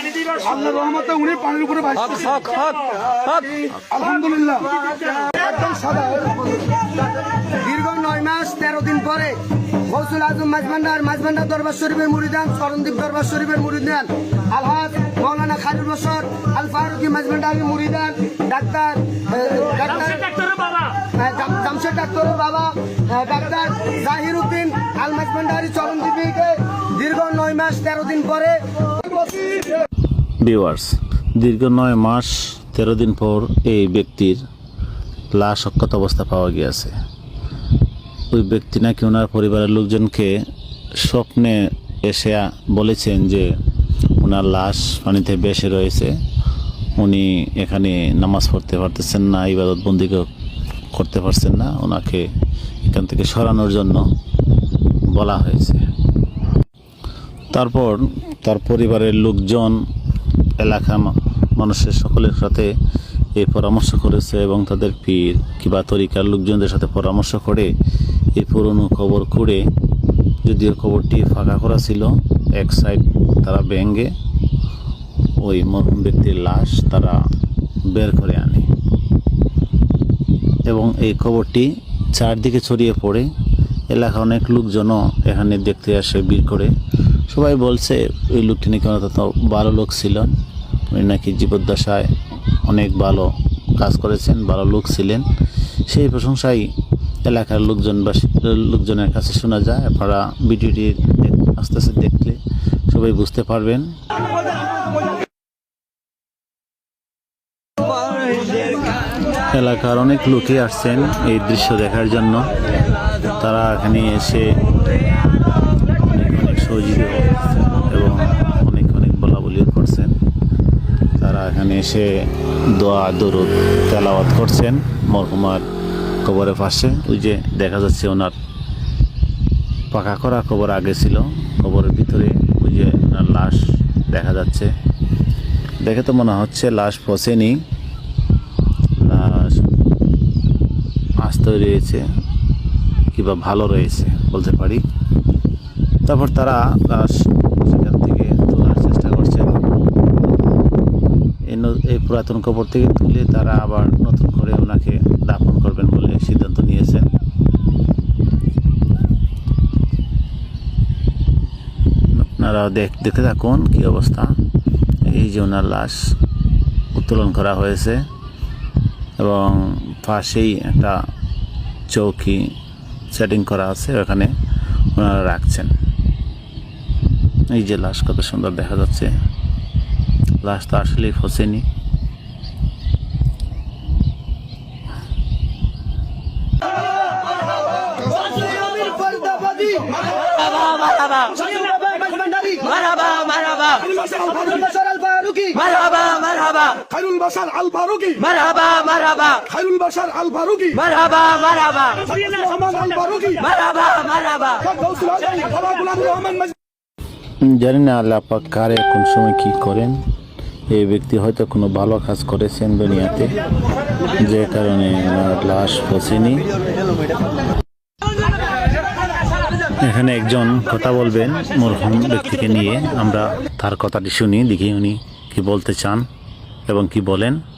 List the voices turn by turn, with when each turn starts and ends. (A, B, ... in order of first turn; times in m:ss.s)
0:00.2-0:02.5 A
0:02.6-0:03.5 B
0:03.9-0:04.8 A
0:05.4-0:06.2 A
0:05.5-0:06.3 C
0:07.5-0:28.6 C
0:29.1-0:29.8 A
0:30.4-0:34.4 D
0:35.3-0:36.9 D
0:38.3-0:40.4 D
0:41.0-0:43.5 D
0:44.2-0:46.2 D
0:47.0-0:50.3 D
0:51.0-0:52.3 D
0:52.9-0:54.1 D
0:55.1-0:55.8 D
0:57.5-0:59.8 D
1:00.6-1:02.7 D
1:03.4-1:07.7 D
1:08.4-1:09.6 D
1:10.4-1:14.1 D
1:15.4-1:17.2 D
1:17.9-1:18.7 D
1:20.7-1:23.3 D
1:23.9-1:26.7 D
1:27.3-1:30.3 D
1:30.9-1:32.1 D
1:32.7-1:35.3 D
1:35.9-1:36.7 D
1:37.3-1:42.4 D
1:42.9-1:43.9 D
1:49.5-1:52.5 D
1:53.4-1:54.5 D
1:56.0-2:00.1 D
2:01.2-2:05.6 D
2:06.2-2:08.4 D
2:09.9-2:14.7 D
2:15.8-2:17.6 D
2:19.0-2:19.7 D
2:21.2-2:22.0 D
2:23.1-2:24.8 D
2:26.1-2:29.6 D
2:31.5-2:37.1 D
2:42.1-2:44.3 D
2:45.0-2:46.0 D
2:47.0-2:48.0 D
2:49.2-2:51.0 D
2:51.9-2:52.4 D
2:53.1-2:54.3 D
2:54.9-2:55.7 D
2:57.5-2:59.1 D
3:00.4-3:01.6 D
3:07.9-3:13.0 C
3:10.8-3:11.1 B
3:13.0-3:13.7 B
3:13.7-3:14.7 A
3:14.3-3:15.7 C
3:15.8-3:16.8 B
3:16.8-3:18.4 A
3:18.4-3:19.4 B
3:19.3-3:21.0 A
3:20.9-3:22.0 B
3:22.0-3:23.5 A
3:23.6-3:24.6 B
3:24.5-3:26.6 A
3:27.4-3:30.0 D
3:30.7-3:33.4 D
3:34.2-3:36.5 D
3:39.8-3:46.0 D
3:46.7-3:47.4 D